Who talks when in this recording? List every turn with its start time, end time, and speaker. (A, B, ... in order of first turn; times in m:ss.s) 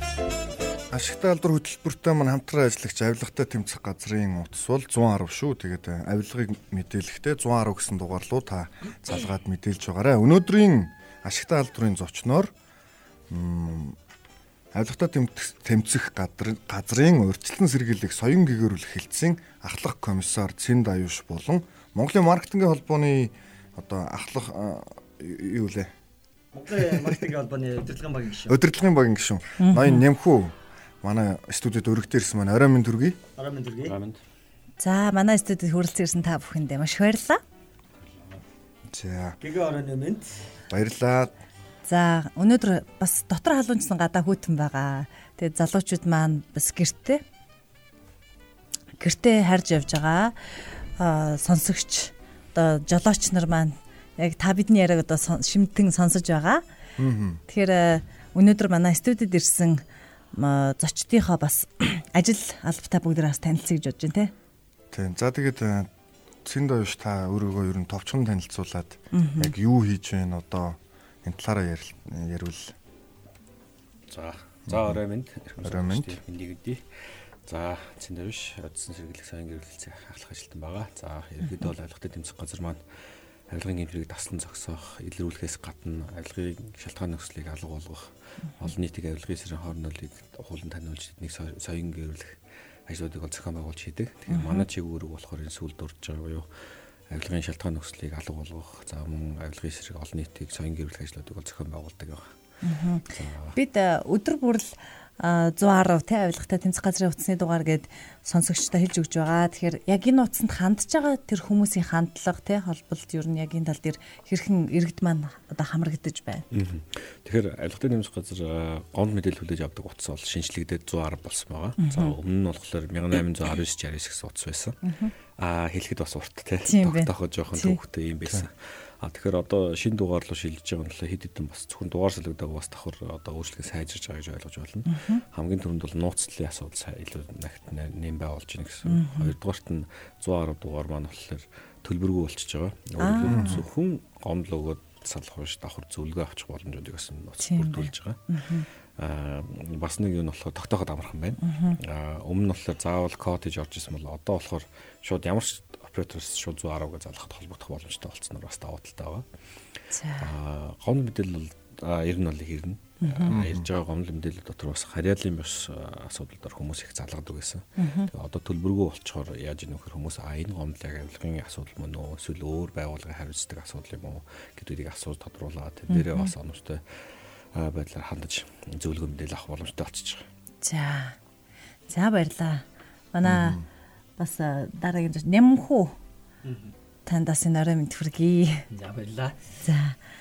0:00.9-0:12.5 A
0:13.3-0:14.0 A
0:14.7-0:25.9 A
0:26.5-0:28.6 B
0:26.7-0:27.3 A
0:28.4-0:33.2 A
0:29.6-0:30.0 C
0:33.4-0:34.0 B
0:33.8-0:34.2 D
0:34.8-0:37.4 C
0:38.9-0:39.4 A
0:39.4-0:40.4 B
0:40.7-0:41.3 A
0:41.9-0:47.2 C
0:49.0-0:56.6 C
0:57.0-0:57.4 A
0:57.5-0:59.8 C
1:00.3-1:04.3 C
1:04.9-1:05.9 A
1:06.4-1:12.7 A
1:09.1-1:09.5 C
1:14.1-1:22.8 D
1:14.7-1:15.0 A
1:15.6-1:16.2 A
1:23.5-1:32.4 D
1:32.9-1:36.5 D
1:34.3-1:34.7 C
1:37.1-1:42.3 D
1:42.6-1:56.4 C
1:43.1-1:43.6 D
1:56.5-2:04.8 D
2:01.8-2:02.1 C
2:04.8-2:05.1 C
2:05.3-2:28.3 D
2:06.6-2:07.8 C
2:14.9-2:15.2 C
2:18.9-2:19.3 C
2:23.0-2:23.6 C
2:23.3-2:23.6 A
2:27.4-2:28.7 C
2:29.0-2:39.3 D
2:31.4-2:31.8 C
2:39.9-2:40.3 C
2:40.2-3:00.2 D
2:43.0-2:43.4 C
2:43.3-2:43.7 A
2:47.8-2:48.1 C
2:55.9-2:56.3 C
3:00.6-3:01.2 C
3:01.9-3:03.6 C
3:03.2-3:03.7 A
3:04.2-3:06.0 C
3:06.4-3:06.8 B
3:07.1-3:08.6 C
3:08.7-3:09.4 B
3:09.6-3:10.0 C